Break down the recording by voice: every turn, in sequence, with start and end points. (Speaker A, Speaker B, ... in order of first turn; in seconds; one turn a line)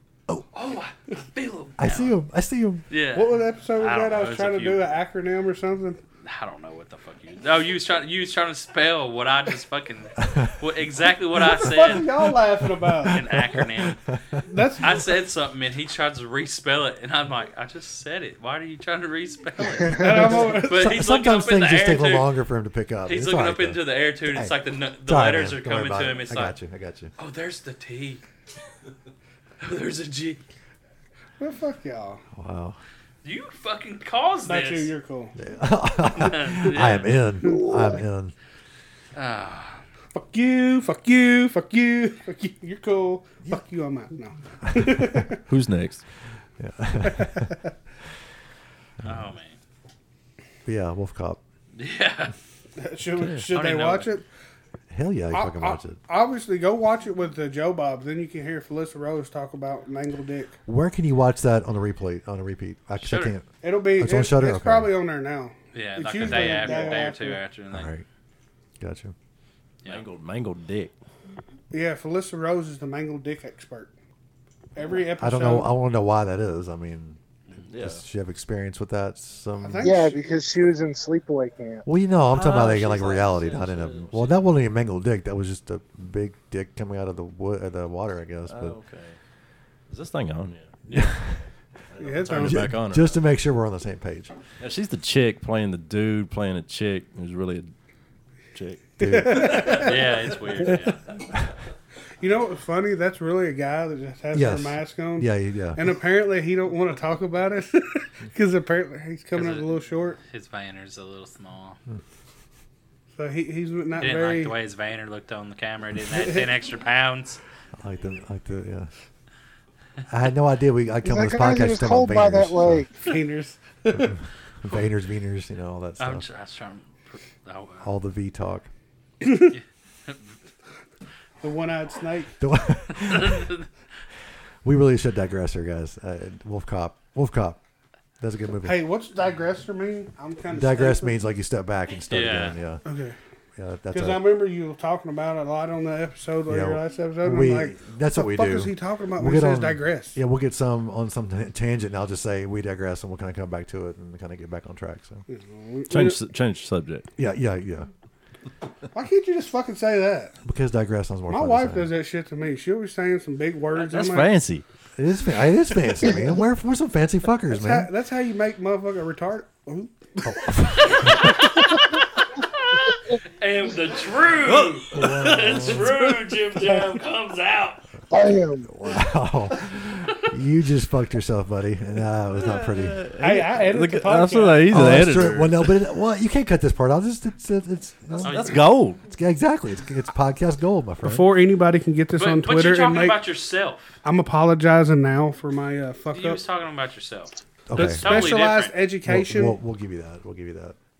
Speaker A: 0.5-2.1
Speaker B: 1.8-2.9
Speaker A: 2.9-4.8
Speaker C: 3.1-6.0
Speaker A: 6.2-12.1
Speaker B: 10.2-10.5
Speaker C: 11.4-13.2
Speaker B: 12.2-14.4
Speaker A: 13.1-14.0
Speaker C: 14.4-15.1
Speaker A: 14.8-22.3
Speaker D: 19.8-20.2
Speaker C: 19.9-20.8
Speaker B: 20.3-27.1
Speaker A: 23.1-26.6
Speaker A: 27.2-28.2
Speaker A: 29.6-30.4
Speaker C: 31.4-32.2
Speaker B: 32.4-32.8
Speaker A: 33.2-34.9
Speaker C: 34.5-35.3
Speaker B: 35.4-38.3
Speaker A: 36.1-37.1
Speaker D: 37.4-38.0
Speaker A: 39.1-39.8
Speaker C: 40.1-45.4
Speaker B: 44.7-45.3
Speaker E: 45.5-46.0
Speaker B: 46.6-47.5
Speaker C: 47.0-47.7
Speaker B: 49.0-49.3
Speaker A: 49.0-49.6
Speaker B: 50.6-51.4
Speaker A: 51.8-52.3
Speaker C: 52.8-54.2
Speaker E: 53.2-53.5
Speaker A: 53.5-54.1
Speaker B: 54.9-56.0
Speaker C: 55.3-60.5
Speaker B: 60.7-64.9
Speaker A: 63.0-63.3
Speaker C: 63.6-67.4
Speaker A: 65.7-67.9
Speaker B: 66.2-66.7
Speaker B: 67.7-68.0
Speaker B: 68.8-69.1
Speaker E: 69.8-70.9
Speaker C: 71.7-73.9
Speaker C: 74.7-75.7
Speaker B: 75.2-77.2
Speaker E: 77.7-78.0
Speaker B: 77.8-80.0
Speaker C: 79.6-80.2
Speaker D: 79.8-81.8
Speaker B: 81.8-88.8
Speaker E: 82.3-84.5
Speaker E: 88.5-89.2
Speaker E: 89.9-90.8
Speaker A: 90.9-91.1
Speaker B: 90.9-91.4
Speaker E: 91.9-93.2
Speaker C: 92.0-92.6
Speaker B: 92.4-94.3
Speaker E: 94.6-97.7
Speaker E: 98.5-100.7
Speaker C: 99.0-100.0
Speaker B: 99.0-99.8
Speaker A: 99.6-101.0
Speaker C: 102.2-110.2
Speaker B: 104.3-105.9
Speaker A: 109.3-109.7
Speaker A: 110.3-111.8
Speaker C: 113.1-114.6
Speaker A: 114.0-117.4
Speaker C: 116.1-116.5
Speaker B: 117.8-118.9
Speaker B: 120.1-122.9
Speaker D: 121.0-122.9
Speaker C: 122.9-124.2
Speaker B: 123.9-126.2
Speaker A: 126.0-127.9
Speaker B: 127.8-128.7
Speaker C: 129.2-129.6
Speaker A: 129.5-130.2
Speaker C: 131.4-132.4
Speaker B: 132.4-133.5
Speaker A: 132.9-133.7
Speaker B: 134.6-137.6
Speaker B: 138.2-138.8
Speaker C: 138.6-141.2
Speaker B: 140.5-142.8
Speaker A: 142.1-142.6
Speaker C: 142.8-143.2
Speaker B: 143.6-144.2
Speaker C: 143.9-150.2
Speaker B: 146.5-155.2
Speaker C: 155.3-156.2
Speaker E: 155.9-157.1
Speaker B: 157.2-157.9
Speaker C: 158.9-160.3
Speaker B: 160.4-161.9
Speaker C: 161.3-164.3
Speaker E: 163.7-164.6
Speaker B: 165.0-167.9
Speaker C: 167.5-170.5
Speaker B: 170.2-171.3
Speaker A: 170.8-177.8
Speaker E: 174.4-176.2
Speaker B: 174.9-175.9
Speaker D: 178.1-178.7
Speaker B: 178.2-183.0
Speaker E: 182.3-185.8
Speaker C: 183.2-184.8
Speaker B: 184.7-188.5
Speaker E: 188.2-189.0
Speaker A: 188.2-188.6
Speaker B: 189.0-191.3
Speaker C: 191.0-193.2
Speaker A: 192.2-194.0
Speaker C: 194.0-196.4
Speaker A: 196.1-198.8
Speaker B: 197.7-198.4
Speaker C: 197.7-199.6
Speaker B: 199.0-200.8